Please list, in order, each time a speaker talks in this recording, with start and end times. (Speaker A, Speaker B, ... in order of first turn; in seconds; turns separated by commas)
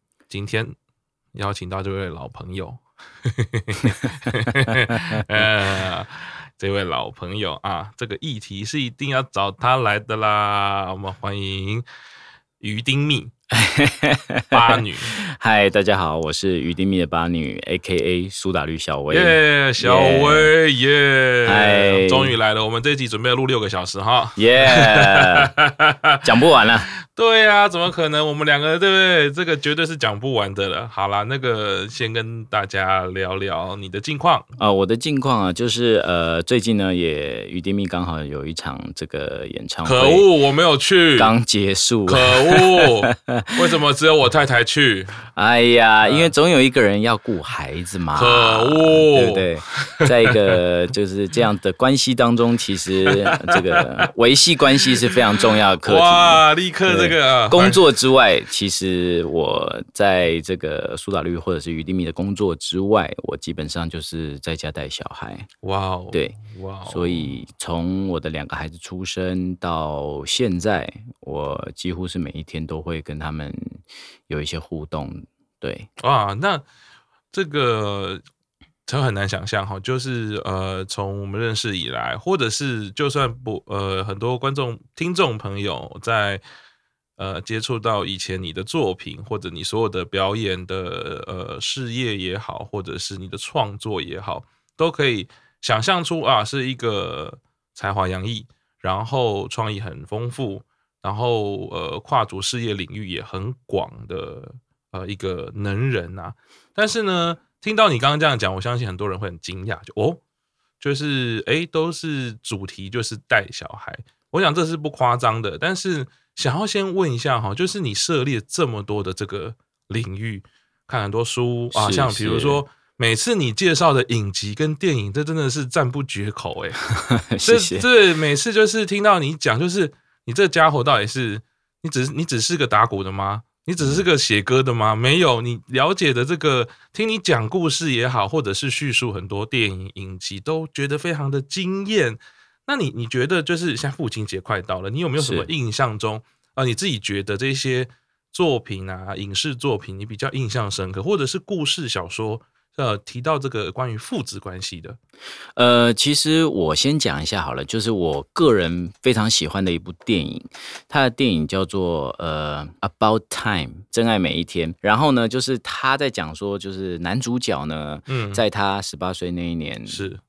Speaker A: 0.3-0.7, Speaker A: 1.3-11.8, Speaker B: 4.2-5.2, Speaker A: 12.6-13.3, Speaker B: 13.5-20.5, Speaker A: 14.5-15.1, Speaker A: 19.1-26.2, Speaker B: 21.4-22.3, Speaker B: 24.4-25.5, Speaker B: 26.2-26.9, Speaker A: 27.0-34.5, Speaker B: 34.6-40.3, Speaker A: 39.8-41.3, Speaker B: 41.2-43.5, Speaker A: 42.1-45.1, Speaker B: 45.3-65.5, Speaker A: 46.0-46.3, Speaker A: 48.1-50.6, Speaker A: 53.0-53.8, Speaker A: 54.9-55.1, Speaker A: 55.8-57.8, Speaker A: 65.6-67.3, Speaker B: 66.1-75.9, Speaker A: 76.0-76.6, Speaker A: 77.3-78.2, Speaker A: 78.9-86.4, Speaker A: 87.2-110.2, Speaker A: 110.8-126.8, Speaker B: 121.7-122.6, Speaker B: 126.9-127.9, Speaker A: 127.4-155.0, Speaker B: 133.8-134.0, Speaker B: 145.2-145.5, Speaker B: 155.6-170.0, Speaker A: 168.1-168.4, Speaker A: 169.9-170.2